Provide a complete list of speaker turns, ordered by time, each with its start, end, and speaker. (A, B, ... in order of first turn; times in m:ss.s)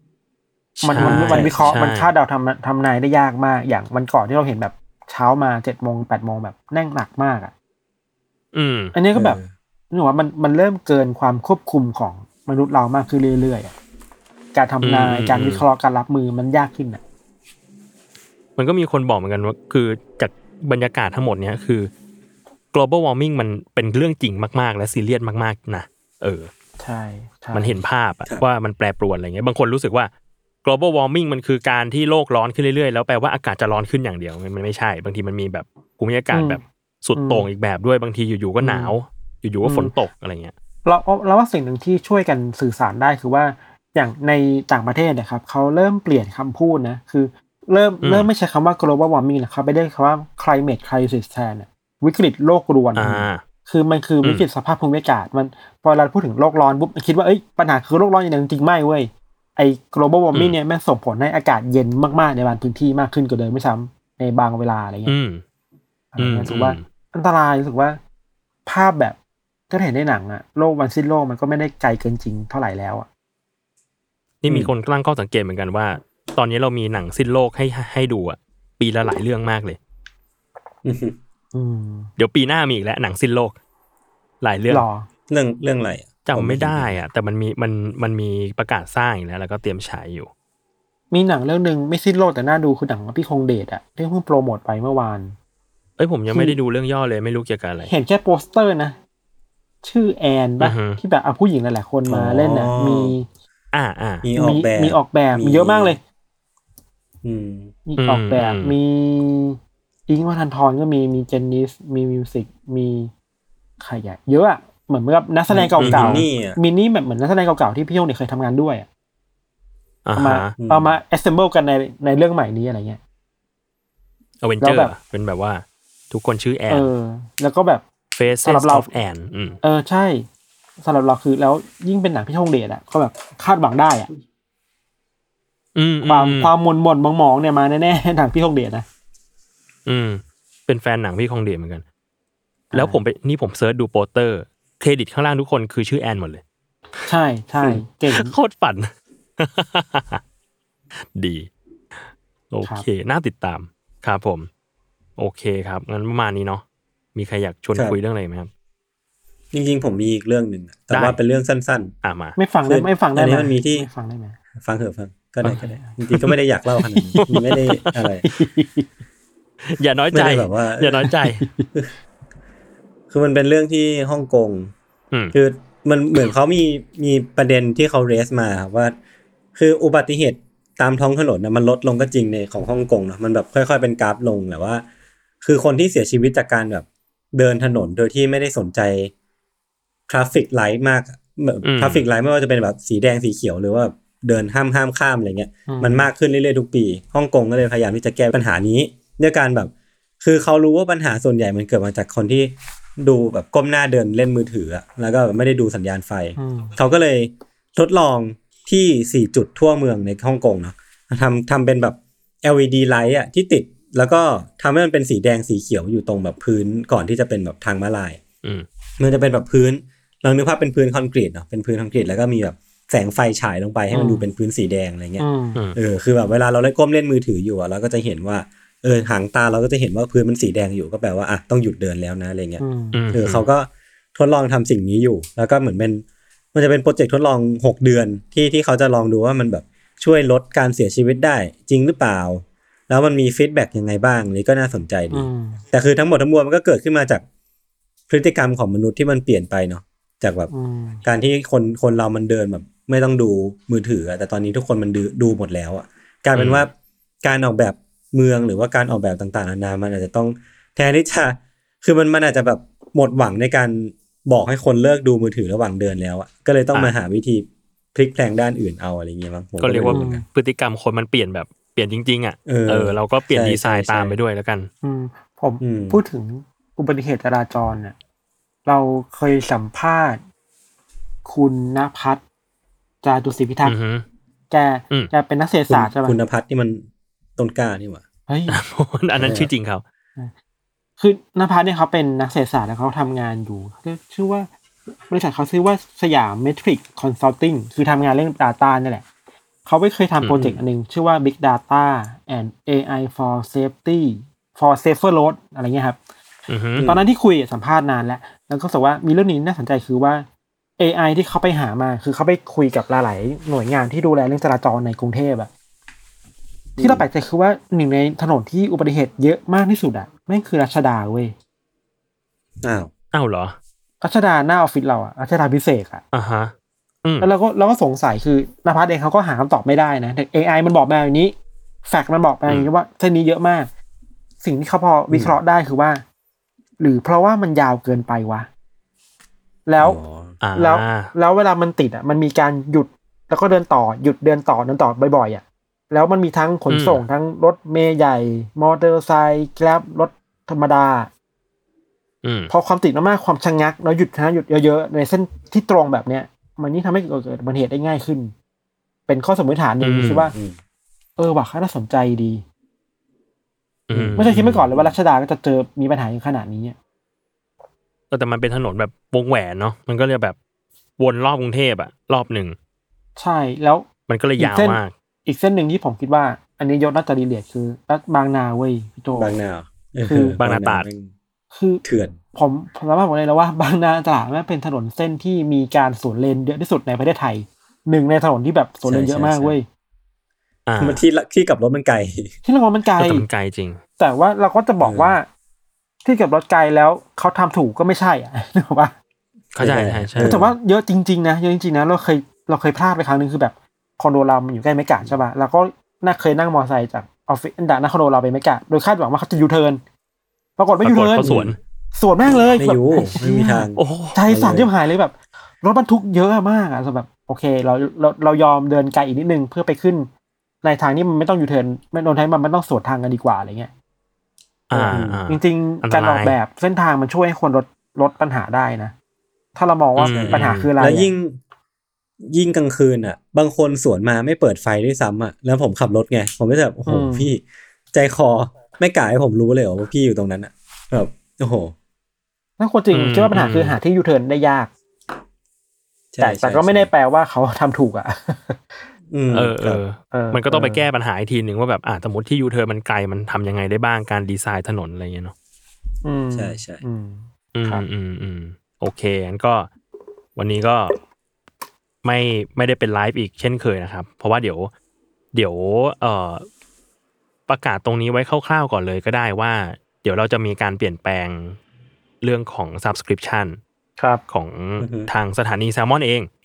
0:00.8-0:02.1 A
0:00.8-0:07.5 B
0:01.0-0:01.8 C
0:08.5-0:09.0 A
0:08.9-0:09.4 B
0:09.2-0:09.5 C
0:09.9-0:13.8 B
0:14.5-0:17.0 B
0:14.8-0:15.6 A
0:18.6-0:21.9 A
0:22.7-0:26.5 A
0:26.8-0:27.8 B
0:27.5-0:30.1 A
0:30.6-0:40.5 A
0:36.3-0:36.6 B
0:37.2-0:37.5 B
0:38.6-0:38.9 B
0:39.6-0:39.9 B
0:40.8-1:05.2 B
0:48.0-0:48.3 A
0:53.0-0:53.4 A
1:05.1-1:05.4 A
1:06.1-1:08.0 B
1:06.2-1:06.8 A
1:08.7-1:09.2 B
1:09.7-1:13.1 B
1:14.4-1:19.8 A
1:20.8-1:21.2 C
1:21.5-1:22.1 B
1:22.2-1:23.6 A
1:24.4-1:24.9 A
1:24.7-1:25.1 B
1:25.3-1:27.0 C
1:26.3-1:30.3 A
1:31.1-1:35.4 B
1:36.0-1:37.9 A
1:36.3-1:36.6 B
1:37.9-1:39.0 B
1:39.8-1:43.3 B
1:40.6-1:41.0 A
1:42.0-1:43.2 C
1:43.7-1:44.2 A
1:44.2-1:46.0 C
1:44.4-1:46.0 B
1:47.2-1:47.7 C
1:47.9-1:53.1 B
1:48.0-1:48.8 A
1:53.8-1:58.9 B
1:55.5-1:56.6 C
1:55.8-1:56.2 A
2:00.0-2:00.5 A
2:00.2-2:03.0 B
2:00.6-2:01.0 C
2:04.4-2:06.9 A
2:04.6-2:04.9 B
2:06.7-2:07.8 B
2:08.2-2:09.6 A
2:08.4-2:08.9 B
2:09.6-2:10.3 B
2:10.8-2:14.1 B
2:15.8-2:16.5 A
2:16.0-2:18.8 B
2:19.9-2:21.8 A
2:22.7-2:23.0 B
2:22.7-2:26.4 A
2:27.0-2:28.3 B
2:27.6-2:30.2 A
2:31.0-2:31.5 A
2:32.5-2:34.5 A
2:35.2-2:36.6 A
2:37.2-2:38.5 A
2:39.5-2:42.0 C
2:40.9-2:41.2 A
2:42.0-2:42.4 A
2:42.4-2:44.4 B
2:42.6-2:43.9 C
2:44.6-2:48.2 C
2:45.6-2:46.0 B
2:46.8-2:47.3 B
2:47.2-2:47.9 A
2:48.2-2:48.9 B
2:49.6-2:51.5 A
2:50.1-2:51.1 C
2:51.1-2:51.7 B
2:53.1-2:54.7 C
2:55.3-2:59.0 C
2:59.6-3:04.8 C
3:05.4-3:09.1 C
3:10.1-3:38.2 C
3:11.6-3:12.0 A
3:15.7-3:16.1 B
3:26.4-3:26.8 B
3:39.0-4:07.2 C
3:43.9-3:44.2 B
3:45.2-3:45.6 B
3:52.6-3:53.0 B
3:52.9-3:53.4 A
4:05.1-4:05.6 B
4:08.1-4:10.5 C
4:10.5-4:11.0 B
4:11.0-4:16.7 C
4:16.4-4:16.7 A
4:17.2-4:30.2 C
4:29.6-4:34.7 A
4:29.9-4:30.2 B
4:32.5-4:34.2 C
4:34.8-4:38.0 B
4:35.6-4:36.0 C
4:38.7-4:40.2 B
4:41.2-4:42.2 B
4:43.0-4:43.8 B
4:43.6-4:44.0 A
4:44.5-4:46.2 B
4:45.7-4:46.9 C
4:47.4-4:48.0 C
4:48.3-4:48.6 B
4:48.5-4:49.8 A
4:49.2-4:49.5 C
4:51.0-4:54.5 B
4:55.1-4:59.0 B
4:59.6-5:06.0 B
5:00.2-5:00.6 A
5:06.5-5:06.9 A
5:06.8-5:07.0 C
5:06.8-5:10.3 B
5:10.8-5:15.5 B
5:16.8-5:17.0 C
5:16.8-5:21.4 B
5:22.6-5:22.9 C
5:23.1-5:23.6 A
5:24.0-5:26.0 B
5:26.1-5:26.5 A
5:27.2-5:33.7 B
5:34.4-5:36.0 B
5:36.8-5:38.5 B
5:39.7-5:40.0 B
5:39.8-5:40.4 C
5:40.4-5:41.1 A
5:40.6-5:51.1 B
5:46.7-5:47.0 A
5:52.2-5:52.5 A
5:52.5-5:58.3 B
5:59.1-6:00.3 B
5:59.8-6:00.3 A
6:00.3-6:00.6 C
6:01.2-6:02.4 B
6:03.9-6:04.6 A
6:03.9-6:05.0 C
6:04.2-6:06.8 B
6:08.1-6:10.4 A
6:11.0-6:12.6 A
6:13.2-6:13.9 B
6:14.1-6:14.9 A
6:14.4-6:19.4 B
6:19.2-6:21.1 C
6:20.0-6:20.4 B
6:20.4-6:20.9 A
6:21.5-6:29.7 B
6:21.8-6:22.2 C
6:28.9-6:29.6 C
6:30.7-6:31.0 A
6:30.8-6:32.3 C
6:32.4-6:33.2 B
6:33.0-6:33.8 A
6:34.0-6:35.3 B
6:34.8-6:35.2 C
6:36.0-6:38.9 B
6:39.6-6:40.4 A
6:39.6-6:40.5 C
6:40.2-6:49.8 B
6:50.6-6:51.4 B
6:50.8-6:51.6 A
6:51.2-6:51.6 C
6:52.0-7:00.1 B
6:52.5-6:54.7 C
6:53.8-6:54.2 A
7:00.6-7:03.7 B
7:04.7-7:06.4 A
7:04.7-7:08.9 B
7:04.9-7:05.2 C
7:09.6-7:11.1 B
7:10.0-7:10.7 A
7:10.1-7:11.4 C
7:12.2-7:21.7 C
7:16.9-7:17.3 B
7:22.6-7:24.7 B
7:22.9-7:23.8 A
7:26.1-7:26.9 C
7:26.2-7:28.9 B
7:29.1-7:29.8 C
7:29.3-7:35.3 A
7:30.1-7:30.8 B
7:36.0-7:37.9 B
7:36.3-7:36.8 C
7:37.6-7:39.7 A
7:40.4-7:41.0 A
7:42.0-7:44.7 A
7:45.3-7:46.5 A
7:47.5-7:51.6 A
7:52.2-7:53.6 A
7:54.3-7:56.3 A
7:54.8-7:55.1 C